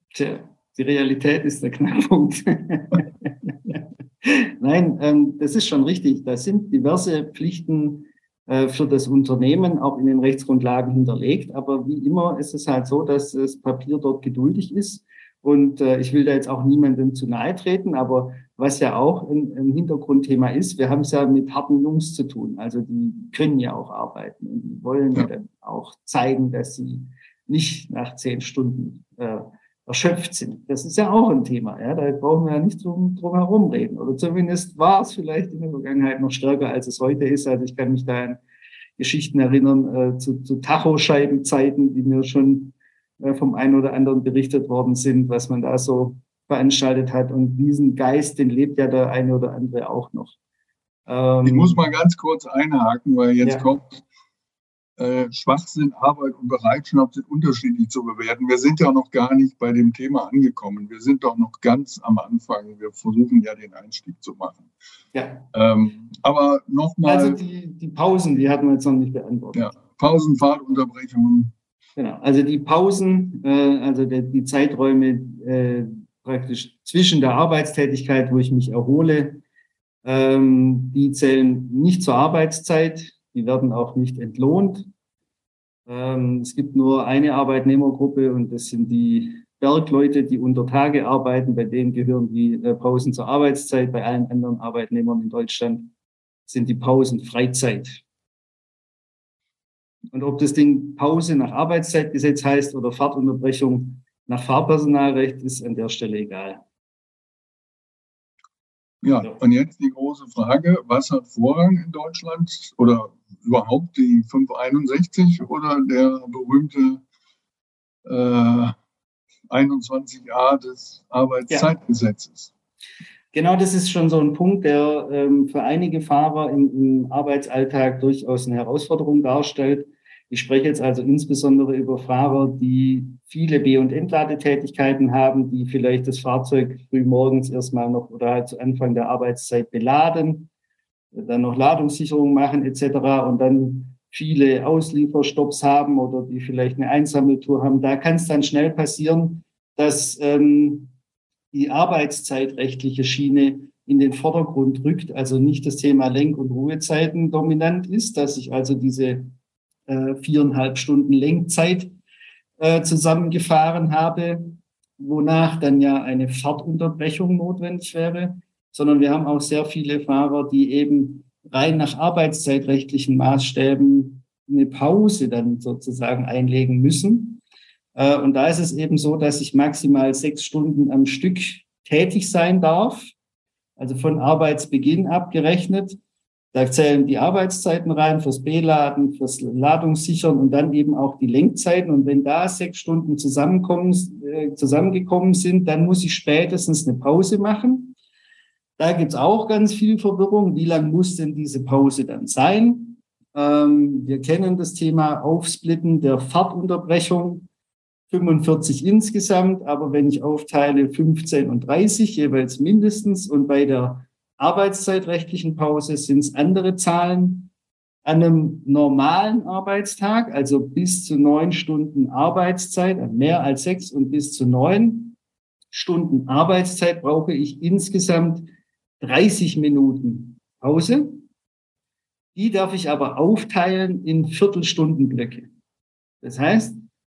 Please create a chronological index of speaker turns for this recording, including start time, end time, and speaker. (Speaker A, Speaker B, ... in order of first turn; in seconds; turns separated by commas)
Speaker A: 0.1-38.4, Speaker A: 39.0-50.4, Speaker A: 51.1-51.8, Speaker B: 51.4-54.0, Speaker A: 53.4-53.7, Speaker B: 55.0-64.7, Speaker A: 65.1-65.5, Speaker B: 65.5-67.4, Speaker A: 67.0-69.8, Speaker B: 69.5-71.5, Speaker A: 72.0-79.4, Speaker A: 80.0-84.9, Speaker A: 85.9-95.9, Speaker A: 96.5-98.0, Speaker A: 100.1-106.6, Speaker B: 109.0-117.0, Speaker B: 118.1-118.8, Speaker B: 119.5-122.5, Speaker A: 123.3-140.5, Speaker A: 141.1-150.9, Speaker A: 151.5-159.3, Speaker A: 159.9-161.9, Speaker A: 162.6-177.4, Speaker A: 177.9-183.1, Speaker A: 183.8-186.0, Speaker A: 186.5-198.0, Speaker A: 198.8-207.5, Speaker A: 208.1-217.5, Speaker A: 218.1-225.2, Speaker A: 225.7-228.5, Speaker A: 229.0-231.3, Speaker A: 232.4-235.5, Speaker A: 236.2-236.8